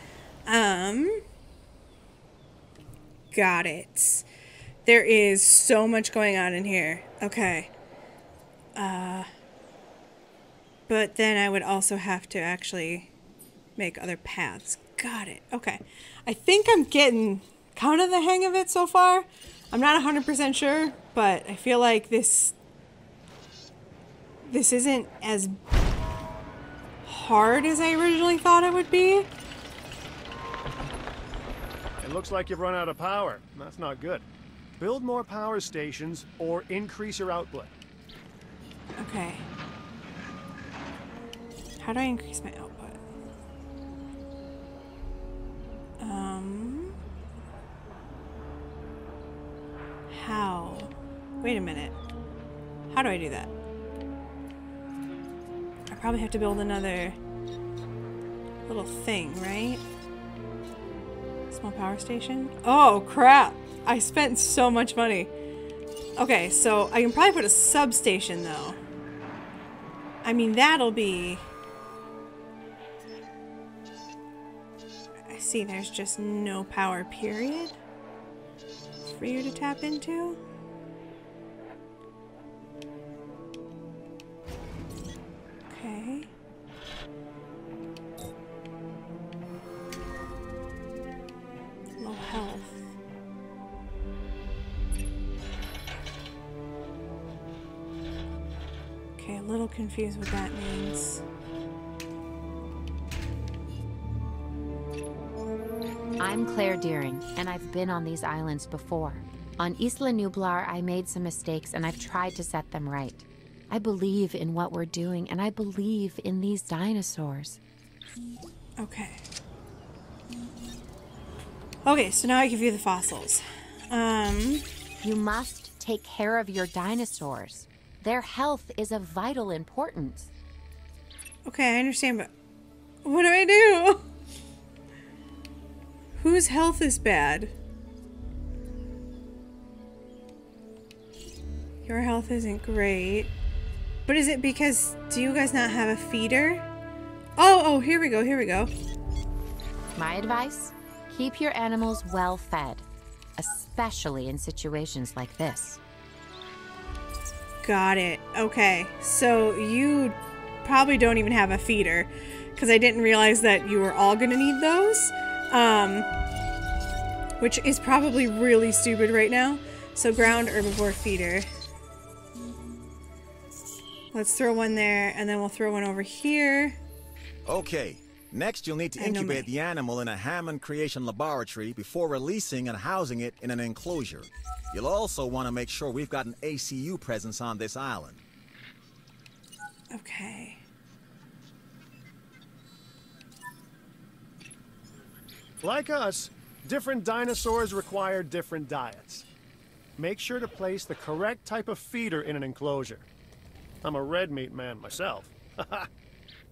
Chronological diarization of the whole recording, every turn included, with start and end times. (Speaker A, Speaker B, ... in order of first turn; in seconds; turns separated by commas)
Speaker A: 0.5-1.2, Speaker A: 3.3-4.2, Speaker A: 4.8-7.7, Speaker A: 8.8-9.3, Speaker A: 10.9-13.1, Speaker A: 13.8-22.5, Speaker A: 24.4-25.6, Speaker A: 27.1-29.3, Speaker B: 32.0-34.2, Speaker B: 34.8-37.7, Speaker A: 39.0-39.5, Speaker A: 41.8-43.0, Speaker A: 46.0-47.0, Speaker A: 50.1-52.0, Speaker A: 52.9-53.5, Speaker A: 55.9-57.2, Speaker A: 58.7-59.8, Speaker A: 61.5-65.3, Speaker A: 66.2-68.8, Speaker A: 70.2-71.5, Speaker A: 75.3-77.8, Speaker A: 79.0-80.4, Speaker A: 85.7-86.3, Speaker A: 92.0-92.9, Speaker A: 99.2-101.2, Speaker C: 106.2-117.6, Speaker A: 118.8-119.2, Speaker A: 121.8-124.7, Speaker C: 125.0-130.3, Speaker A: 131.5-132.3, Speaker A: 133.1-134.0, Speaker A: 136.2-137.5, Speaker A: 141.9-143.3, Speaker A: 144.1-146.7, Speaker A: 147.4-148.7, Speaker C: 150.0-152.9, Speaker C: 153.4-155.8, Speaker A: 157.6-166.1, Speaker A: 167.4-171.5, Speaker A: 174.1-176.8, Speaker D: 177.4-188.2, Speaker A: 179.0-179.5, Speaker A: 189.9-190.6, Speaker B: 195.6-199.2, Speaker B: 200.0-203.1, Speaker B: 203.8-205.9